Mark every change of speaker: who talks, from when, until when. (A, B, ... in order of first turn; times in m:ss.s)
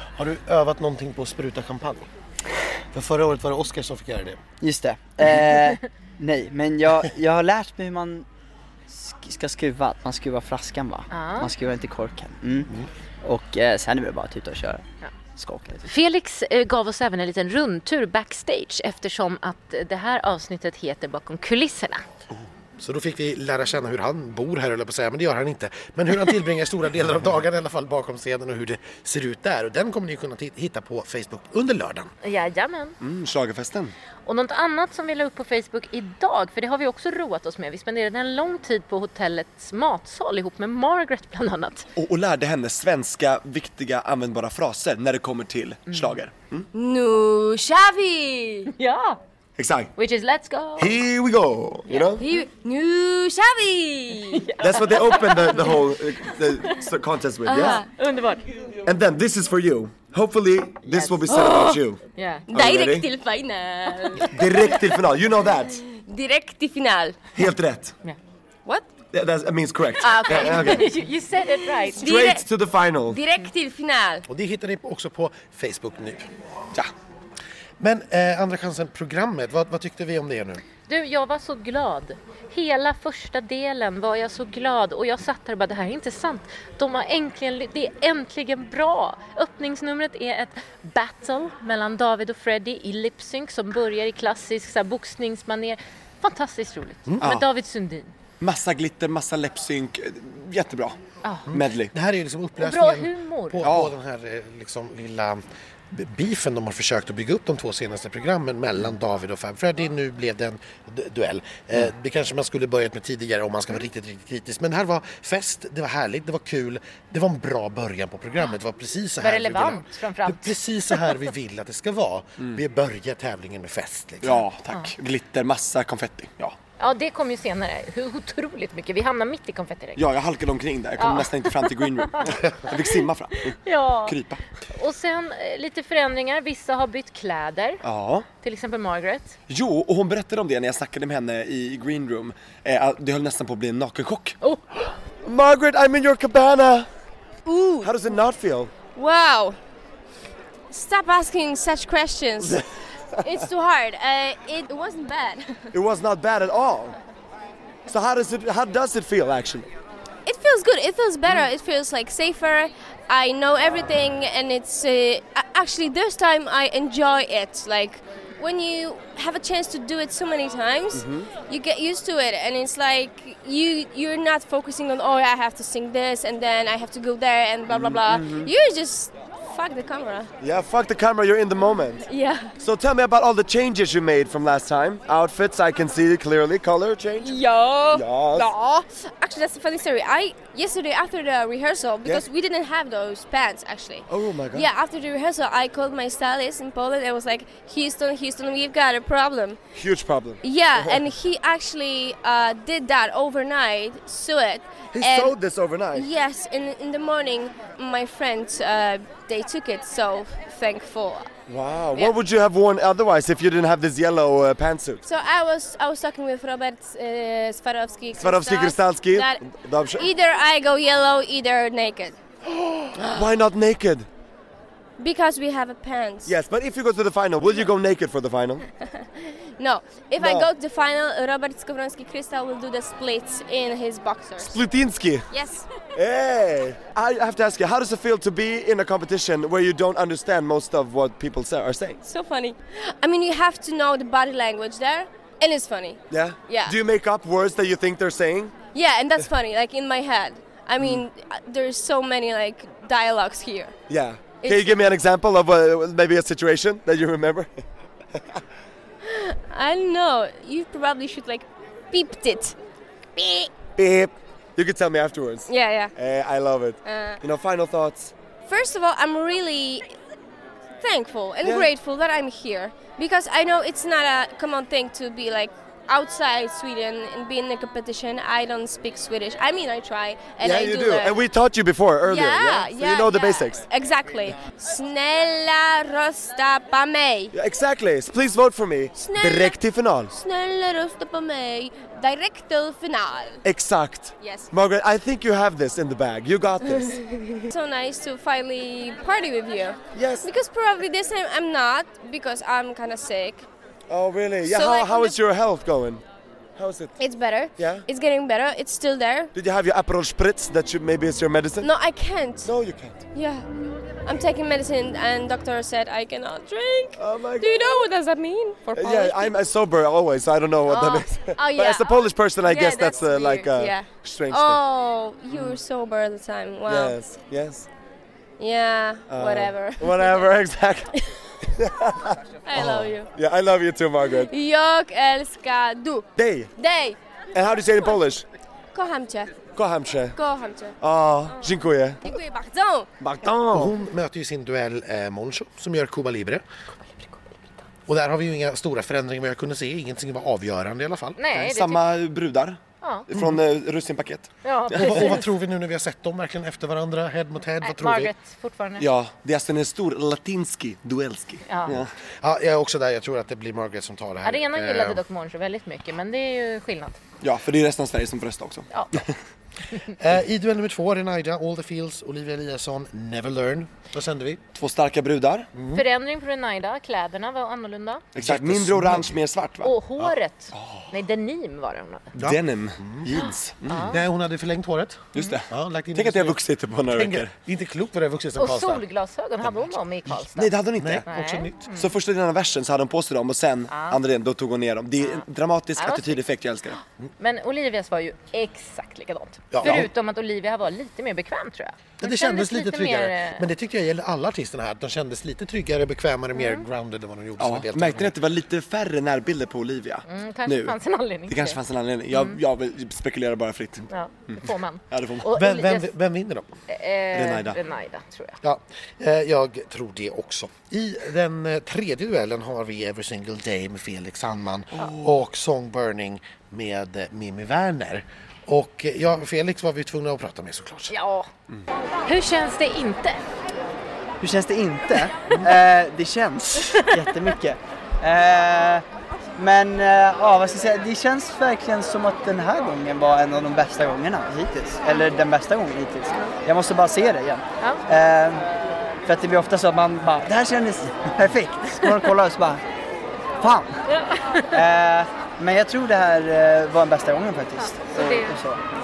0:00.1-0:02.1 A
0:02.9-0:04.4 A
0:04.6-0:08.2 B
0:08.9-0:12.7 B
0:11.1-0:11.5 C
0:13.2-0:14.8 B
0:15.4-0:15.9 B
0:15.8-0:22.0 C
0:22.8-0:32.1 A
0:32.2-0:33.0 C
0:33.0-0:33.9 D
0:34.2-0:41.9 C
0:42.0-0:46.7 D
0:45.9-0:46.2 C
0:46.7-0:48.7 E
0:48.7-0:49.2 C
0:49.6-0:49.9 D
0:50.0-0:51.0 C
0:50.8-0:52.2 D
0:52.2-0:54.5 E
0:54.3-0:55.8 C
0:54.6-0:57.8 D
0:57.4-0:57.9 E
0:57.8-0:58.4 C
0:58.8-1:02.0 D
1:00.9-1:01.3 C
1:01.3-1:01.8 E
1:02.2-1:02.5 C
1:02.5-1:04.9 E
1:02.5-1:03.1 D
1:04.3-1:05.8 D
1:05.8-1:07.2 E
1:07.3-1:08.0 D
1:08.6-1:08.9 E
1:09.1-1:10.9 D
1:10.0-1:10.9 E
1:10.2-1:12.1 C
1:11.8-1:12.5 E
1:11.9-1:13.2 D
1:13.0-1:14.2 E
1:14.3-1:16.3 A
1:17.8-1:20.6 A
1:20.9-1:38.1 C
1:38.4-1:41.0 D
1:41.2-1:41.5 C
1:41.5-2:04.4 A
1:41.5-1:41.9 D
1:42.6-1:43.7 C
1:43.6-1:43.9 D
1:59.2-2:01.1 C
2:04.2-2:06.6 D
2:06.8-2:10.0 C
2:10.0-2:14.4 D
2:11.0-2:14.2 C
2:14.7-2:17.8 C
2:17.8-2:18.3 D
2:18.4-2:19.4 C
2:19.5-2:24.4 D
2:25.2-2:26.9 D
2:27.4-2:27.9 E
2:27.8-2:28.7 D
2:28.9-2:29.6 E
2:30.7-2:32.6 E
2:33.2-2:35.7 E
2:35.7-2:37.0 D
2:37.9-2:39.7 D
2:40.2-3:00.3 E
2:50.9-2:51.3 D
2:57.7-2:58.5 D
3:00.4-3:02.0 D
3:02.1-3:02.5 E
3:02.6-3:07.4 D
3:07.2-3:19.6 E
3:07.9-3:08.5 D
3:14.1-3:14.7 D
3:19.7-3:21.0 D
3:20.4-3:25.4 E
3:24.9-3:26.1 D
3:25.9-3:31.3 E
3:31.5-3:35.0 D
3:35.0-3:42.2 E
3:38.2-3:40.1 D
3:42.9-3:44.1 D
3:45.0-3:46.3 E
3:46.2-3:48.6 D
3:48.8-3:54.6 E
3:50.2-3:50.5 D
3:54.4-3:55.3 D
3:55.3-3:55.7 E
3:55.9-4:02.0 D
4:02.0-4:06.8 E
4:06.1-4:08.6 D
4:08.7-4:13.8 E
4:13.9-4:17.6 D
4:14.4-4:14.8 E
4:19.0-4:22.6 E
4:23.2-4:23.5 E
4:23.8-4:28.1 D
4:25.5-4:25.9 E
4:26.8-4:27.2 E
4:28.5-4:30.0 E
4:30.8-4:41.2 E
4:40.4-4:43.6 D
4:42.0-4:47.3 E
4:47.3-4:50.1 D
4:48.9-4:49.6 E
4:50.1-4:53.4 E
4:53.4-4:57.0 D
4:54.2-4:54.5 E
4:56.7-5:03.5 E
4:59.9-5:00.3 D
5:03.9-5:06.0 D
5:04.4-5:05.2 E
5:06.6-5:07.0 D
5:07.0-5:09.3 E
5:07.6-5:07.8 D
5:09.3-5:11.7 D
5:11.6-5:12.5 E
5:12.4-5:13.0 D
5:13.1-5:13.4 E
5:14.0-5:19.3 E
5:17.0-5:17.8 D
5:18.8-5:24.6 D
5:20.7-5:27.0 E
5:25.3-5:25.6 D
5:26.7-5:27.7 D
5:28.4-5:30.3 E
5:29.1-5:30.9 D
5:31.4-5:34.3 D
5:32.4-5:33.1 E
5:34.2-5:37.0 E
5:36.2-5:36.5 D
5:37.3-5:38.2 D
5:38.7-5:39.4 E
5:39.5-5:40.2 D
5:40.1-5:40.8 E
5:40.8-5:42.1 D
5:42.0-5:42.9 E
5:43.0-5:43.7 D
5:43.5-5:46.4 A
5:46.9-5:47.4 C
5:47.9-5:51.4 A
5:51.2-5:51.8 C
5:51.4-5:55.1 D
5:52.8-5:53.1 C
5:54.4-5:55.2 C
5:54.7-5:58.1 A
5:57.6-5:58.9 C
5:58.8-6:01.9 D
6:01.5-6:01.7 C
6:01.7-6:05.0 A
6:04.2-6:07.0 C
6:07.2-6:09.2 D
6:08.7-6:09.0 C
6:10.0-6:14.4 A
6:14.5-6:15.5 D
6:15.5-6:15.8 A
6:15.7-6:18.1 C
6:18.1-6:19.7 D
6:18.2-6:19.2 A
6:19.6-6:22.1 C
6:20.5-6:20.9 D
6:22.2-6:23.1 A
6:22.2-6:24.0 D
6:23.7-6:24.0 C
6:23.8-6:28.8 A
6:25.1-6:27.3 D
6:28.4-6:31.9 C
6:30.4-6:31.0 D
6:30.8-6:31.7 A
6:31.8-6:36.8 D
6:33.7-6:34.0 C
6:35.8-6:36.2 C
6:37.2-6:43.5 C
6:39.5-6:39.9 A
6:42.0-6:48.1 A
6:46.3-6:46.6 C
6:47.4-6:50.8 D
6:50.1-6:51.6 C
6:51.3-6:55.3 D
6:52.1-6:52.4 C
6:53.9-6:55.9 C
6:55.3-6:56.5 A
6:56.7-6:58.4 C
6:57.1-6:57.6 D
6:58.4-7:10.9 A
7:10.9-7:11.3 C
7:12.0-7:13.2 C
7:14.2-7:18.8 B
7:19.4-7:28.5 B
7:29.0-7:32.6 B
7:33.4-7:33.8 B
7:33.9-7:34.5 C
7:34.5-7:38.6 B
7:37.9-7:38.4 C